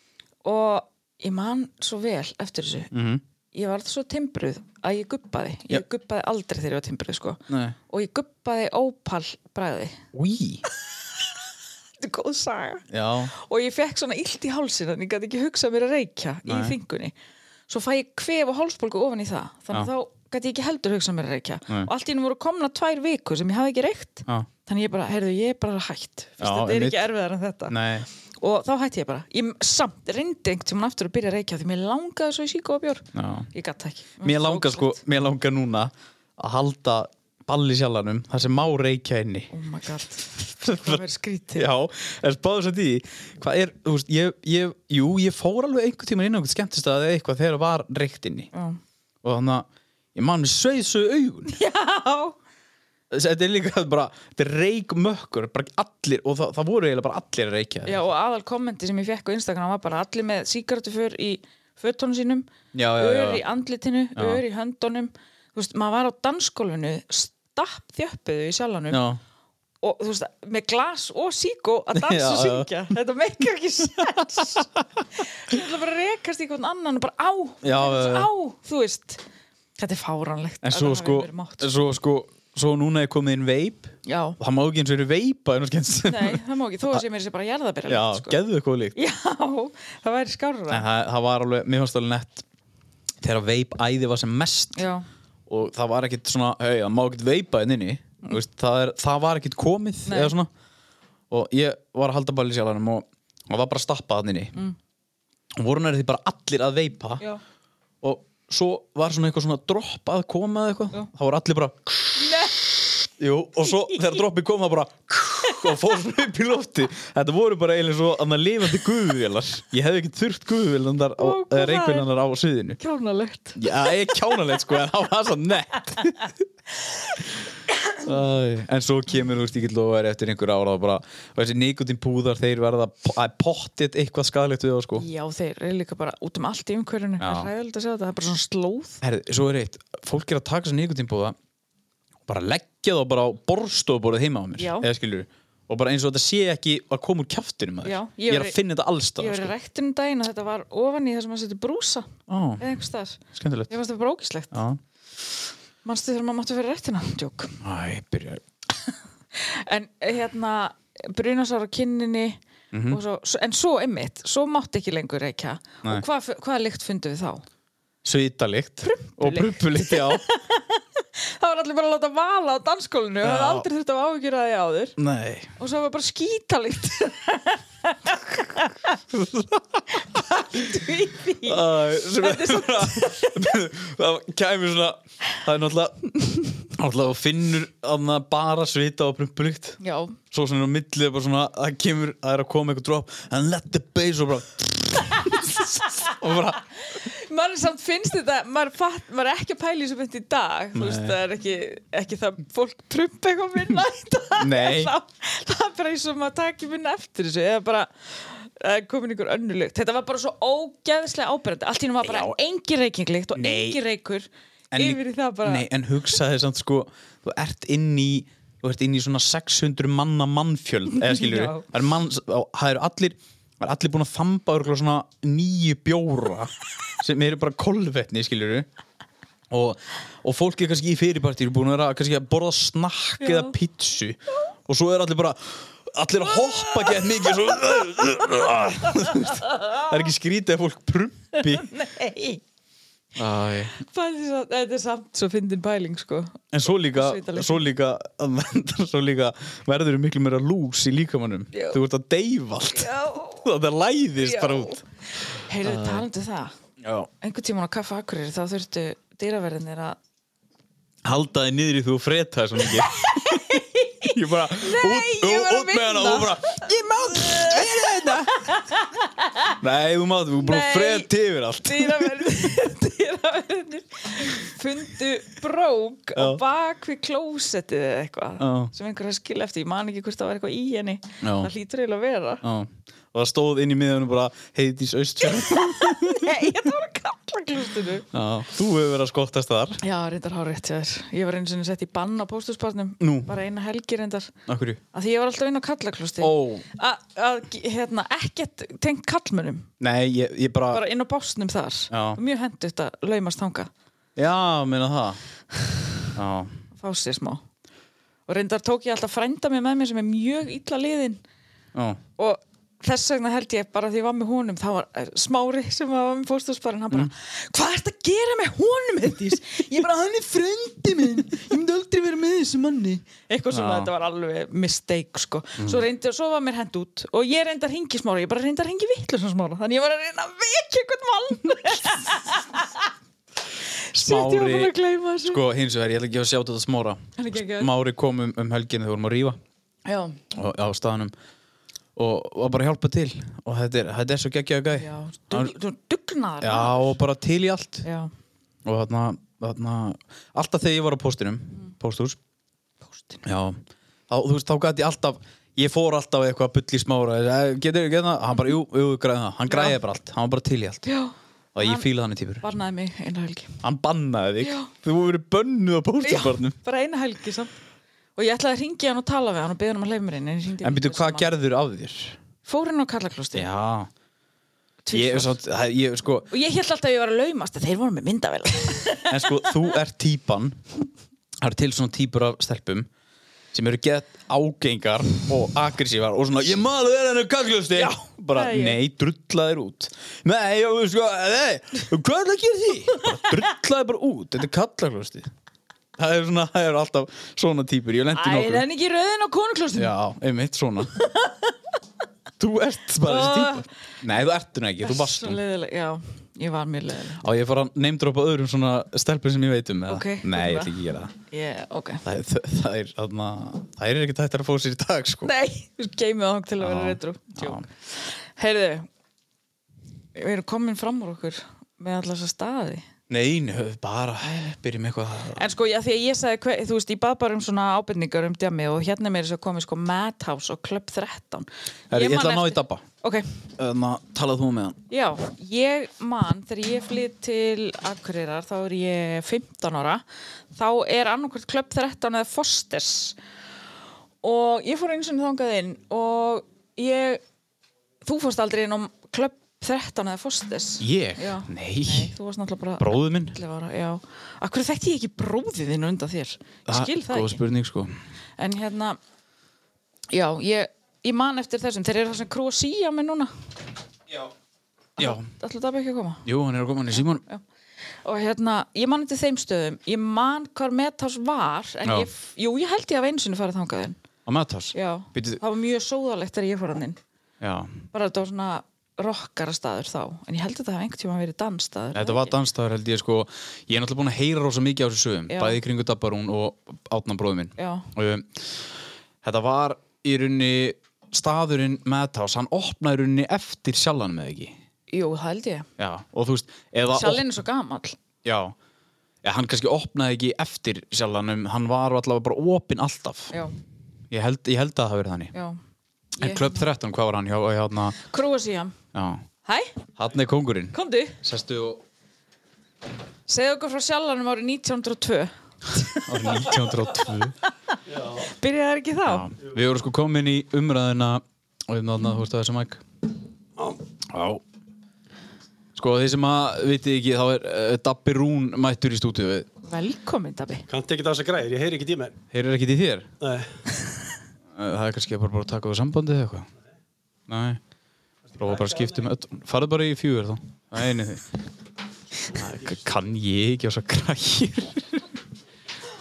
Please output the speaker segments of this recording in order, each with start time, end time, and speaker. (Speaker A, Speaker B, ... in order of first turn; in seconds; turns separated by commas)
Speaker A: 0.4-2.9, Speaker B: 2.9-3.2, Speaker A: 3.5-10.0, Speaker B: 7.5-7.8, Speaker B: 10.1-10.6, Speaker A: 12.0-17.1, Speaker B: 12.9-13.3, Speaker B: 16.5-16.8, Speaker A: 17.7-27.8, Speaker B: 26.4-27.0, Speaker B: 27.7-28.1, Speaker A: 28.4-35.0, Speaker B: 33.1-33.5, Speaker B: 34.2-39.5, Speaker A: 39.5-41.7, Speaker B: 40.6-41.0, Speaker B: 41.5-48.5, Speaker A: 48.5-48.8, Speaker B: 49.2-51.6, Speaker A: 51.5-52.4, Speaker B: 53.1-58.1, Speaker A: 57.9-69.0, Speaker B: 62.7-63.4, Speaker B: 64.2-64.4, Speaker B: 68.9-69.2, Speaker A: 69.8-79.2, Speaker B: 71.9-72.7, Speaker B: 77.6-78.3, Speaker A: 79.8-81.7, Speaker B: 80.6-87.0, Speaker A: 84.1-84.4, Speaker A: 86.1-88.4, Speaker B: 87.9-89.0, Speaker A: 89.0-90.8, Speaker B: 90.7-92.5, Speaker B: 93.2-94.8, Speaker A: 94.8-95.1, Speaker B: 95.5-100.5, Speaker A: 100.1-100.3, Speaker B: 101.3-104.5, Speaker B: 105.6-107.2, Speaker B: 108.0-112.4, Speaker A: 112.2-112.7, Speaker B: 113.2-122.8, Speaker A: 113.7-114.2, Speaker A: 121.2-122.1, Speaker A: 122.8-124.4, Speaker B: 123.6-126.3, Speaker B: 128.0-135.1, Speaker A: 135.0-139.0, Speaker B: 137.2-137.5, Speaker B: 139.0-141.4, Speaker B: 142.3-149.5, Speaker A: 144.6-144.9, Speaker A: 147.8-148.6, Speaker A: 149.2-154.6, Speaker B: 152.3-152.7, Speaker B: 153.3-153.7, Speaker B: 154.5-154.8, Speaker A: 155.8-157.6, Speaker B: 157.6-158.4, Speaker A: 159.3-167.4, Speaker B: 162.7-163.0, Speaker B: 168.0-170.2, Speaker A: 168.8-175.0, Speaker B: 173.2-173.7, Speaker B: 175.0-175.5, Speaker A: 175.6-179.0, Speaker B: 179.1-180.2, Speaker A: 180.0-183.6, Speaker B: 181.4-186.1, Speaker B: 186.6-189.8, Speaker A: 189.8-190.2, Speaker B: 190.3-196.6, Speaker A: 195.2-196.1, Speaker A: 196.8-215.7, Speaker B: 200.7-201.2, Speaker B: 204.4-204.9, Speaker B: 212.0-212.3, Speaker B: 213.3-213.8, Speaker B: 214.7-228.7, Speaker A: 220.9-221.7, Speaker B: 229.5-241.7, Speaker A: 233.2-233.5, Speaker A: 236.6-237.4, Speaker A: 238.9-239.9, Speaker A: 241.4-242.4, Speaker B: 243.2-243.8, Speaker A: 243.8-247.6, Speaker B: 246.5-254.8, Speaker A: 251.5-251.8, Speaker A: 252.7-253.5, Speaker A: 254.2-256.5, Speaker B: 255.6-256.1, Speaker B: 256.8-257.1, Speaker A: 257.2-260.0, Speaker B: 261.1-268.6, Speaker A: 262.6-269.5, Speaker B: 269.6-272.5, Speaker A: 270.4-271.1, Speaker A: 271.6-282.4, Speaker B: 276.2-276.4, Speaker B: 278.4-278.7, Speaker B: 281.2-281.5, Speaker B: 282.4-286.5, Speaker A: 285.3-288.1, Speaker B: 288.1-289.8, Speaker A: 289.8-294.3, Speaker B: 293.0-293.3, Speaker B: 294.5-294.8, Speaker A: 294.9-299.7, Speaker B: 296.2-296.6, Speaker B: 299.8-300.8, Speaker A: 300.7-303.7, Speaker B: 301.9-302.2, Speaker B: 304.2-305.2, Speaker B: 306.1-306.5, Speaker A: 306.8-307.4, Speaker A: 308.3-311.2, Speaker B: 311.7-312.0, Speaker A: 312.2-332.9, Speaker B: 323.5-323.9, Speaker B: 325.6-325.8, Speaker A: 333.9-335.4, Speaker B: 333.9-339.4, Speaker A: 337.2-337.7, Speaker A: 339.9-340.2, Speaker B: 340.3-341.1, Speaker B: 342.0-345.5, Speaker A: 344.7-347.0, Speaker B: 346.4-347.9, Speaker A: 347.8-348.1, Speaker B: 348.6-352.2, Speaker A: 352.9-353.2, Speaker B: 353.2-360.9, Speaker A: 359.5-359.8, Speaker A: 360.9-361.9, Speaker B: 361.6-362.5, Speaker A: 362.4-363.6, Speaker B: 363.6-366.6, Speaker A: 364.4-364.7, Speaker A: 366.0-367.5, Speaker A: 368.2-371.3, Speaker B: 370.6-372.2, Speaker A: 372.4-373.5, Speaker B: 373.3-373.9, Speaker A: 374.9-375.3, Speaker B: 374.9-376.3, Speaker A: 376.3-379.7, Speaker B: 379.1-380.6, Speaker B: 381.4-382.9, Speaker B: 383.5-395.3, Speaker A: 387.8-388.8, Speaker B: 396.0-398.7, Speaker A: 398.1-399.9, Speaker B: 399.8-400.9, Speaker A: 400.9-401.5, Speaker B: 402.4-405.4, Speaker A: 403.0-403.7, Speaker A: 404.8-407.2, Speaker B: 407.2-411.1, Speaker A: 409.9-410.8, Speaker A: 411.3-412.1, Speaker B: 412.0-415.3, Speaker A: 415.2-418.9, Speaker B: 416.6-417.6, Speaker A: 420.1-422.9, Speaker B: 423.1-425.4, Speaker A: 425.3-433.3, Speaker B: 431.9-432.8, Speaker B: 433.6-434.8, Speaker A: 434.9-443.2, Speaker A: 444.2-447.2, Speaker A: 448.0-457.4, Speaker B: 450.8-452.1, Speaker B: 452.8-453.4, Speaker B: 456.7-457.9, Speaker A: 458.4-459.0, Speaker A: 460.1-463.3, Speaker B: 465.0-465.3, Speaker A: 465.0-466.2, Speaker B: 466.2-467.2, Speaker A: 468.0-474.0, Speaker B: 474.3-475.4, Speaker A: 474.7-477.0, Speaker B: 477.4-477.8, Speaker A: 477.9-482.4, Speaker B: 481.9-488.5, Speaker A: 485.3-485.6, Speaker A: 487.6-487.9, Speaker B: 489.2-494.6, Speaker A: 494.9-495.7, Speaker B: 495.8-497.2, Speaker A: 496.9-498.0, Speaker B: 498.2-498.6, Speaker B: 499.2-503.3, Speaker B: 504.1-505.3, Speaker A: 505.3-505.6, Speaker A: 506.2-506.6, Speaker B: 506.2-508.0, Speaker A: 508.0-508.8, Speaker B: 508.9-509.2, Speaker A: 509.4-509.7, Speaker B: 510.0-511.8, Speaker A: 510.7-511.2, Speaker A: 513.3-516.7, Speaker B: 516.0-517.4, Speaker A: 517.7-519.3, Speaker C: 517.9-518.3, Speaker B: 519.1-522.8, Speaker B: 524.1-524.4, Speaker B: 525.8-529.5, Speaker A: 529.6-530.7, Speaker C: 530.7-532.1, Speaker B: 532.3-533.1, Speaker C: 533.2-533.5, Speaker B: 534.5-536.5, Speaker B: 537.3-537.6, Speaker C: 538.4-539.1, Speaker B: 538.4-541.3, Speaker B: 542.3-545.0